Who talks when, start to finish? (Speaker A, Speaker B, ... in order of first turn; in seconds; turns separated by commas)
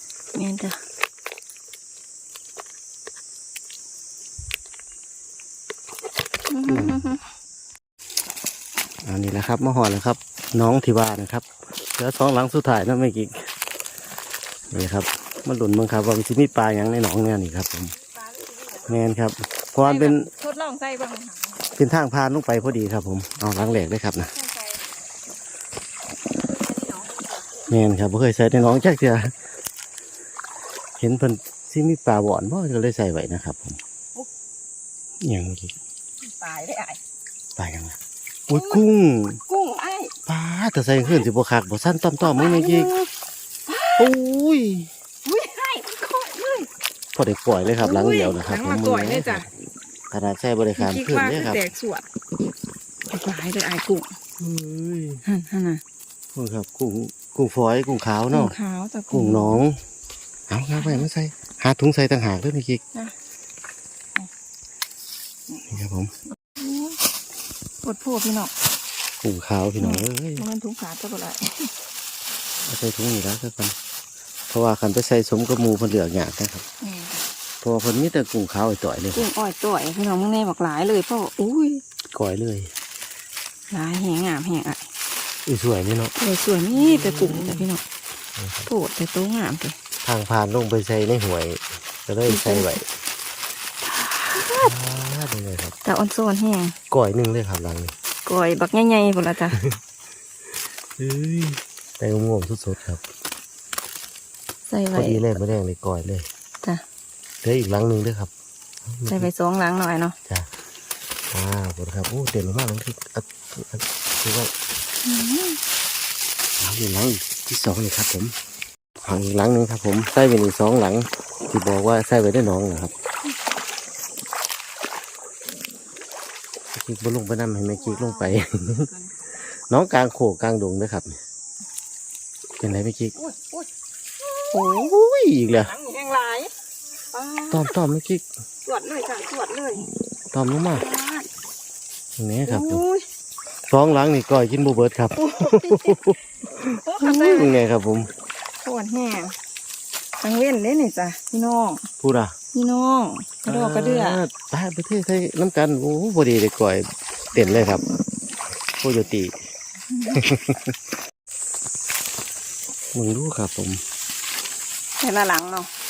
Speaker A: 0.3-0.8, Speaker A: 6.5-7.2, Speaker B: 6.7-7.1, Speaker B: 9.0-13.5, Speaker B: 14.7-17.9, Speaker A: 18.0-18.9, Speaker B: 18.9-20.3, Speaker A: 19.8-21.7, Speaker B: 21.8-24.3, Speaker A: 24.3-24.8, Speaker A: 26.5-27.7, Speaker B: 27.7-29.3, Speaker B: 31.0-33.8, Speaker B: 35.2-35.8, Speaker A: 36.2-37.0, Speaker B: 37.6-39.4, Speaker A: 38.5-38.8, Speaker A: 39.5-40.1, Speaker B: 40.3-43.1, Speaker A: 42.2-42.9, Speaker A: 43.7-44.1, Speaker B: 44.0-44.9, Speaker A: 45.2-46.7, Speaker B: 47.1-49.5, Speaker A: 47.8-49.5, Speaker B: 50.1-51.6, Speaker A: 50.8-52.0, Speaker A: 53.1-54.1, Speaker B: 54.4-55.2, Speaker A: 55.2-55.8, Speaker B: 56.3-58.5, Speaker A: 58.3-59.6, Speaker B: 59.1-59.8, Speaker B: 60.5-62.8, Speaker A: 60.8-61.0, Speaker B: 65.7-66.1, Speaker A: 66.5-67.0, Speaker A: 67.8-68.5, Speaker B: 69.2-70.5, Speaker A: 69.8-71.7, Speaker B: 72.6-73.8, Speaker B: 74.5-76.6, Speaker A: 76.8-77.2, Speaker B: 77.6-79.3, Speaker A: 79.1-81.8, Speaker B: 82.1-82.7, Speaker A: 83.7-84.8, Speaker B: 85.5-86.1, Speaker A: 86.2-87.8, Speaker B: 86.7-87.7, Speaker B: 88.4-88.7, Speaker A: 88.7-89.8, Speaker B: 90.0-92.8, Speaker A: 92.2-92.8, Speaker A: 93.9-94.7, Speaker B: 94.6-95.7, Speaker A: 95.8-96.8, Speaker B: 96.9-97.9, Speaker A: 98.2-99.6, Speaker B: 99.5-99.8, Speaker B: 101.0-103.0, Speaker A: 104.7-105.4, Speaker B: 104.9-106.2, Speaker B: 107.4-108.3, Speaker B: 108.8-109.3, Speaker A: 109.1-110.2, Speaker B: 111.3-114.5, Speaker A: 115.0-115.6, Speaker B: 116.6-118.3, Speaker B: 119.0-122.9, Speaker B: 126.7-128.9, Speaker A: 127.7-129.1, Speaker B: 129.7-131.2, Speaker B: 132.6-133.1, Speaker A: 133.2-133.7, Speaker A: 134.2-134.9, Speaker B: 134.5-135.7, Speaker A: 135.5-136.5, Speaker A: 137.1-137.7, Speaker B: 137.5-138.2, Speaker A: 138.7-139.9, Speaker B: 140.3-140.8, Speaker A: 140.7-141.3, Speaker B: 142.2-142.8, Speaker A: 142.5-143.1, Speaker B: 143.7-148.1, Speaker A: 145.2-147.6, Speaker A: 148.6-149.3, Speaker A: 150.2-151.8, Speaker B: 152.0-152.3, Speaker A: 152.5-154.2, Speaker B: 153.4-157.8, Speaker A: 157.3-157.7, Speaker B: 158.8-159.3, Speaker A: 159.9-160.2, Speaker B: 160.1-160.7, Speaker B: 162.9-163.8, Speaker A: 165.0-165.7